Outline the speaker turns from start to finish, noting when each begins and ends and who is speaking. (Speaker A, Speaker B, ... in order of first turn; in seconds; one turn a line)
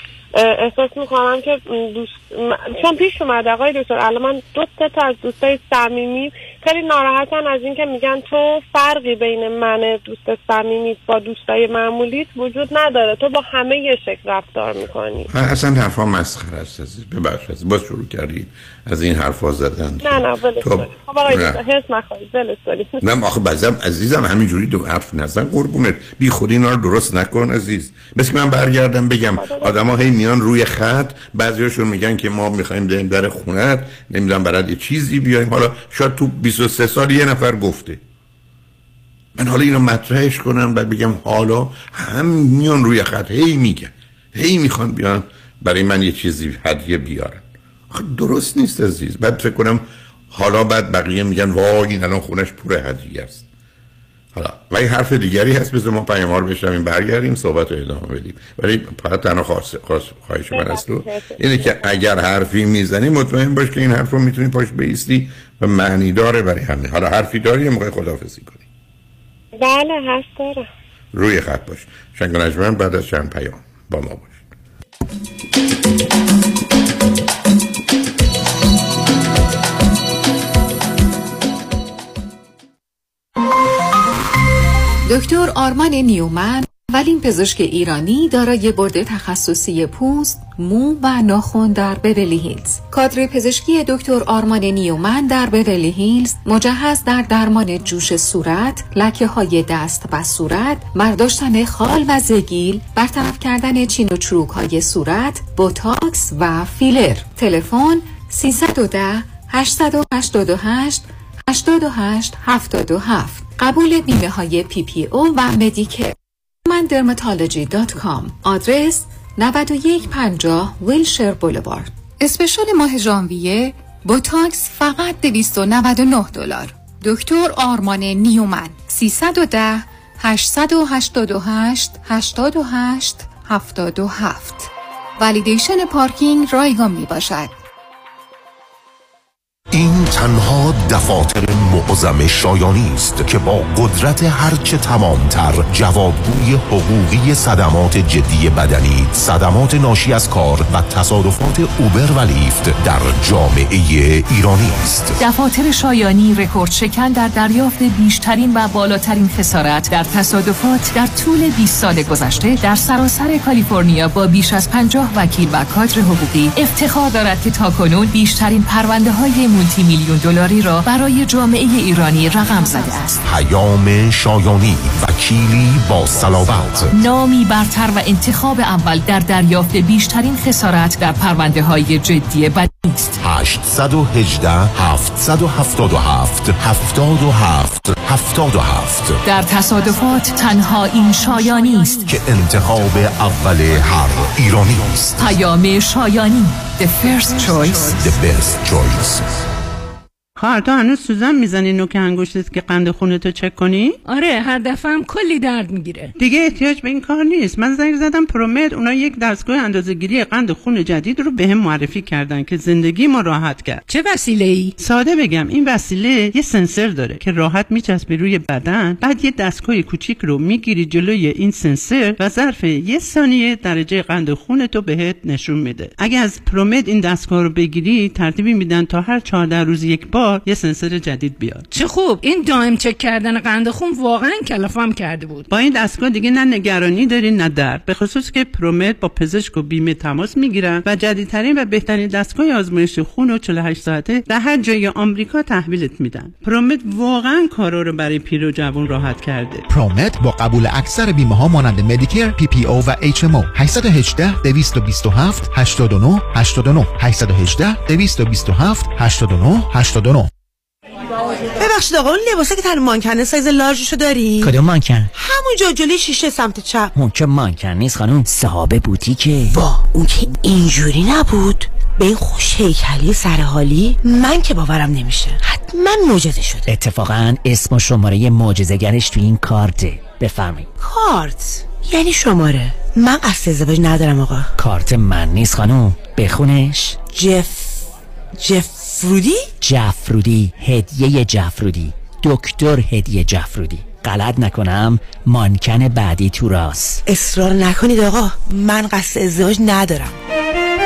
Speaker A: 0.3-15.3
Speaker B: 15.3-21.6
Speaker A: 20.0-23.0
Speaker B: 23.0-38.0
Speaker A: 29.4-29.8
Speaker B: 39.3-53.5
Speaker B: 54.3-68.7
Speaker A: 60.5-61.9
Speaker A: 69.6-70.7
Speaker B: 71.1-74.4
Speaker C: 85.0-137.5
Speaker D: 139.7-155.2
Speaker E: 155.2-173.2
Speaker D: 173.2-176.9
Speaker E: 176.9-183.1
Speaker D: 183.2-189.2
Speaker E: 189.2-192.0
Speaker D: 192.0-195.4
Speaker E: 195.2-197.9
Speaker D: 197.9-199.3
Speaker F: 200.4-204.0
Speaker G: 204.0-206.1
Speaker F: 206.2-213.8
Speaker G: 213.9-214.7
Speaker F: 214.8-231.6
Speaker G: 231.7-235.5
Speaker F: 235.5-249.7
Speaker H: 249.7-260.3
Speaker I: 261.6-264.5
Speaker J: 264.4-265.1
Speaker I: 265.1-266.9
Speaker J: 266.9-269.6
Speaker I: 269.5-276.7
Speaker J: 276.7-280.7
Speaker I: 280.8-284.5
Speaker J: 284.6-287.0
Speaker I: 287.1-289.5
Speaker J: 289.6-297.0
Speaker I: 297.1-300.1